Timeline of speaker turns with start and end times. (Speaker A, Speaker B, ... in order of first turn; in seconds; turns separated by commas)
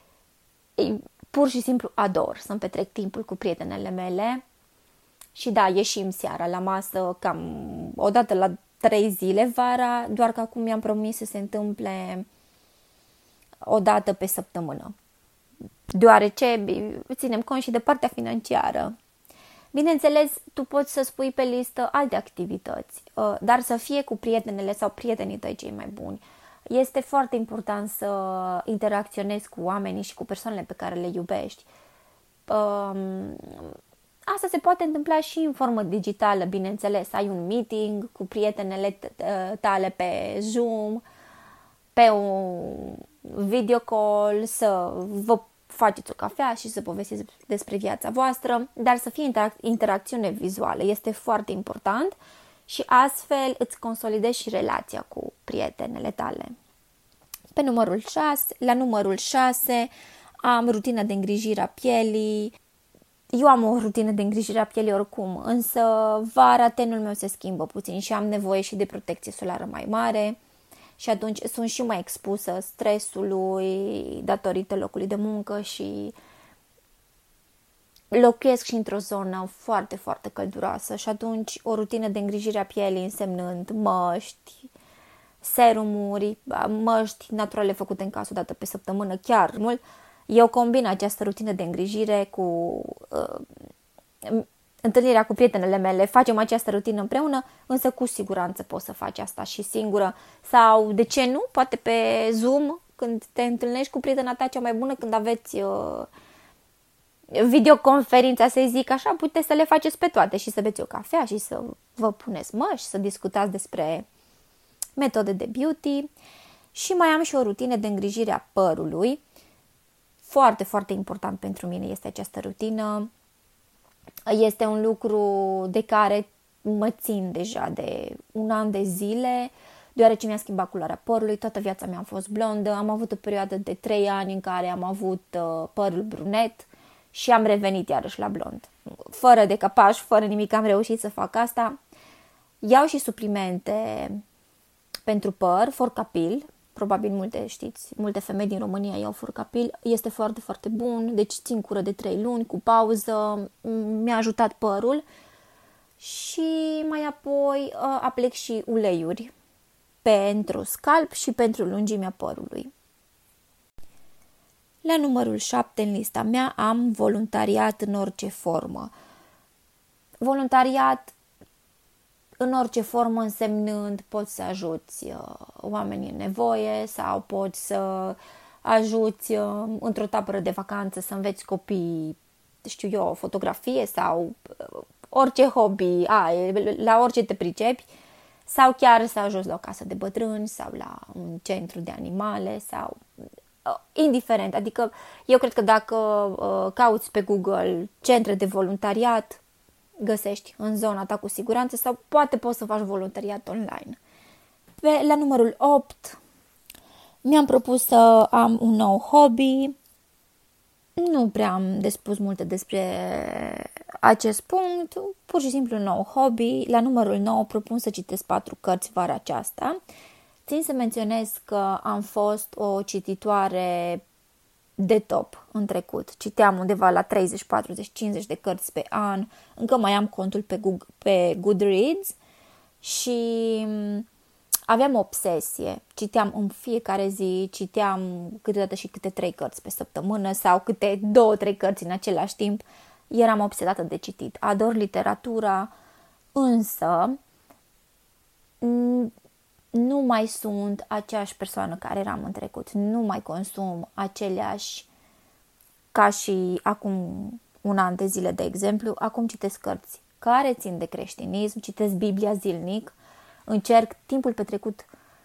Speaker A: 0.8-4.4, Speaker A: 5.3-12.2, Speaker A: 13.6-14.9, Speaker A: 15.9-18.9, Speaker A: 19.7-31.7, Speaker A: 32.5-33.7, Speaker A: 34.3-41.0, Speaker A: 41.9-52.1, Speaker A: 52.7-56.5, Speaker A: 57.5-59.9, Speaker A: 60.4-62.5, Speaker A: 63.3-70.4, Speaker A: 71.0-76.1, Speaker A: 78.1-84.7, Speaker A: 85.4-93.5, Speaker A: 94.2-106.1, Speaker A: 107.3-114.0, Speaker A: 115.0-116.1, Speaker A: 116.7-119.2, Speaker A: 120.2-123.1, Speaker A: 124.3-141.8, Speaker A: 142.6-144.2, Speaker A: 145.1-155.0, Speaker A: 156.0-159.3, Speaker A: 160.0-162.7, Speaker A: 164.8-168.9, Speaker A: 170.2-171.1, Speaker A: 172.4-187.8, Speaker A: 188.4-193.0, Speaker A: 193.6-199.4, Speaker A: 200.0-204.0, Speaker A: 204.8-206.2, Speaker A: 207.2-209.7, Speaker A: 211.0-219.8, Speaker A: 220.4-224.0, Speaker A: 224.8-232.2, Speaker A: 232.8-234.1, Speaker A: 234.7-245.7, Speaker A: 246.3-247.2, Speaker A: 248.6-249.1, Speaker A: 249.7-254.9, Speaker A: 255.9-262.9, Speaker A: 263.5-264.9